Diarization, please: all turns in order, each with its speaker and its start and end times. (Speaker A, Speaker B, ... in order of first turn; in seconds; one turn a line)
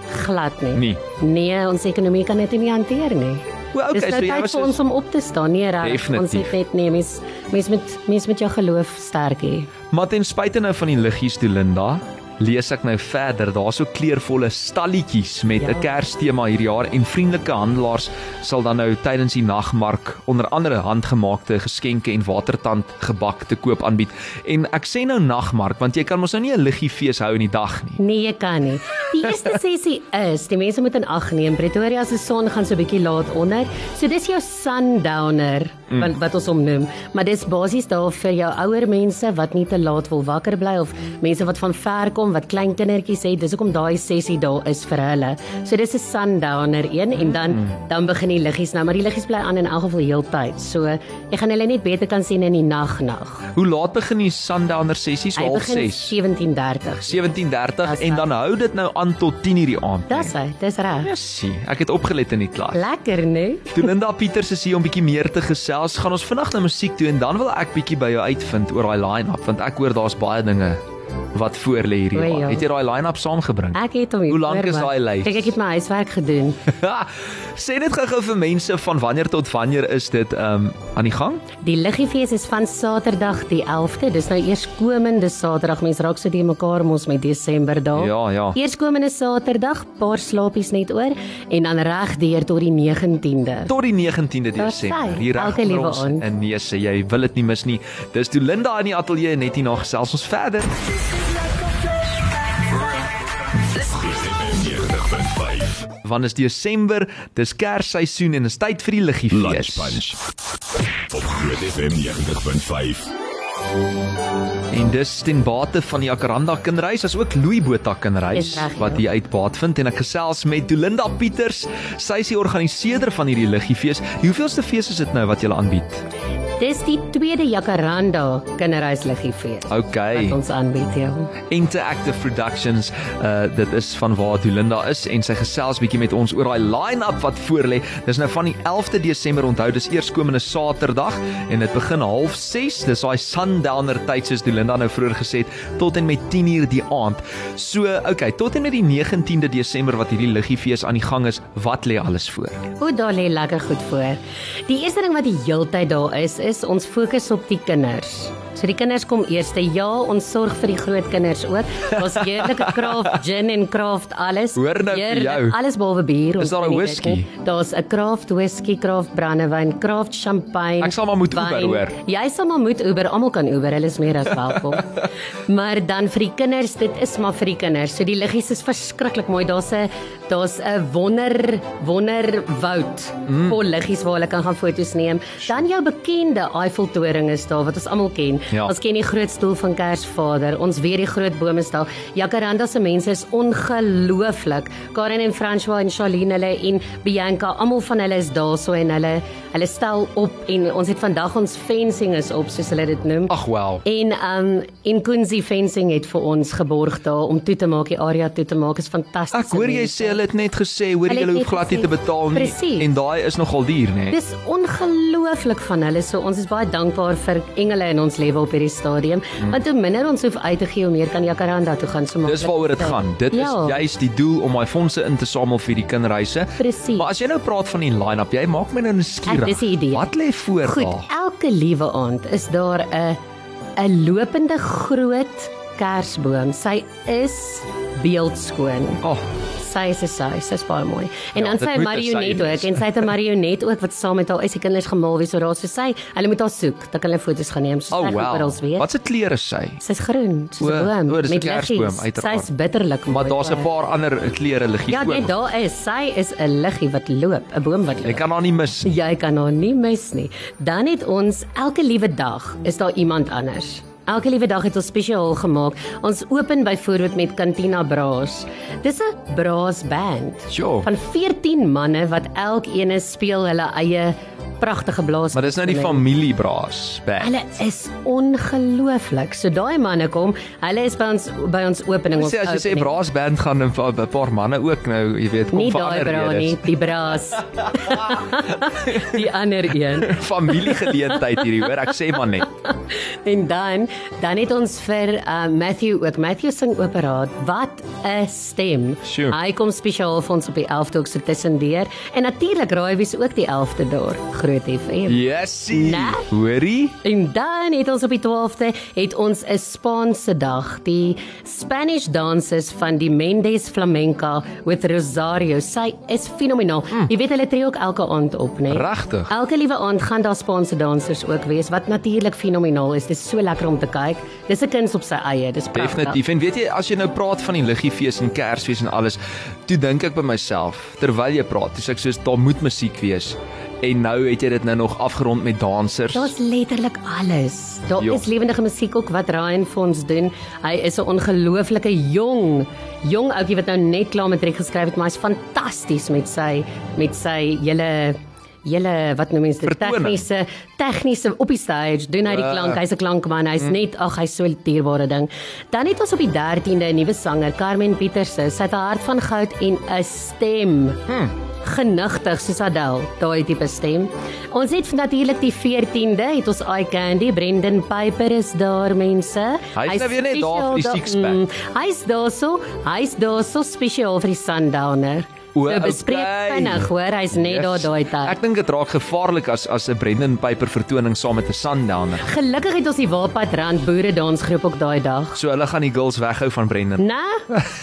Speaker A: 0.1-9.7
Speaker B: 0.7-1.0
Speaker B: 3.7-4.8
Speaker B: 5.8-6.5
Speaker B: 9.9-28.0
Speaker A: 15.6-15.9
Speaker A: 28.0-53.5
Speaker B: 53.5-56.1
Speaker A: 55.4-58.3
Speaker B: 57.0-60.3
Speaker A: 60.1-61.1
Speaker B: 61.0-62.8
Speaker A: 62.7-63.9
Speaker B: 63.7-70.8
Speaker B: 71.3-75.5
Speaker A: 72.1-72.7
Speaker A: 73.7-76.6
Speaker B: 76.7-81.4
Speaker A: 81.6-93.7
Speaker B: 87.9-88.6
Speaker B: 93.7-100.7
Speaker A: 94.6-96.2
Speaker C: 103.8-105.8
Speaker B: 106.0-110.0
Speaker C: 109.3-110.1
Speaker C: 111.1-113.1
Speaker B: 114.7-126.0
Speaker A: 118.3-119.0
Speaker A: 126.6-131.3
Speaker B: 129.7-130.4
Speaker B: 131.5-152.6
Speaker A: 152.8-203.3
Speaker B: 162.0-163.1
Speaker B: 164.5-165.6
Speaker B: 166.4-167.3
Speaker B: 170.8-172.0
Speaker B: 183.3-183.6
Speaker B: 203.3-203.8
Speaker A: 203.8-210.2
Speaker B: 209.3-214.2
Speaker A: 211.1-212.9
Speaker A: 214.1-223.8
Speaker B: 222.2-231.1
Speaker A: 226.6-227.1
Speaker A: 229.3-230.1
Speaker A: 230.6-233.2
Speaker A: 233.8-239.0
Speaker A: 239.6-248.9
Speaker B: 241.3-243.1
Speaker B: 247.9-249.8
Speaker A: 249.8-253.7
Speaker B: 250.6-252.5
Speaker B: 253.1-255.3
Speaker A: 254.9-258.2
Speaker B: 258.0-258.9
Speaker A: 258.8-276.1
Speaker B: 270.5-270.9
Speaker B: 275.3-277.3
Speaker A: 277.2-283.0
Speaker B: 282.1-286.7
Speaker A: 285.5-291.9
Speaker B: 287.6-289.1
Speaker B: 289.9-292.5
Speaker A: 293.2-306.3
Speaker B: 299.0-299.4
Speaker B: 305.1-306.9
Speaker A: 307.0-326.2
Speaker B: 318.7-319.3
Speaker B: 325.7-336.3
Speaker A: 336.1-361.1
Speaker B: 338.0-338.2
Speaker B: 349.6-350.2
Speaker B: 352.2-352.8
Speaker A: 361.6-378.4
Speaker B: 369.7-371.4
Speaker B: 375.5-382.2
Speaker A: 382.2-385.4
Speaker B: 385.3-387.6
Speaker A: 387.0-387.4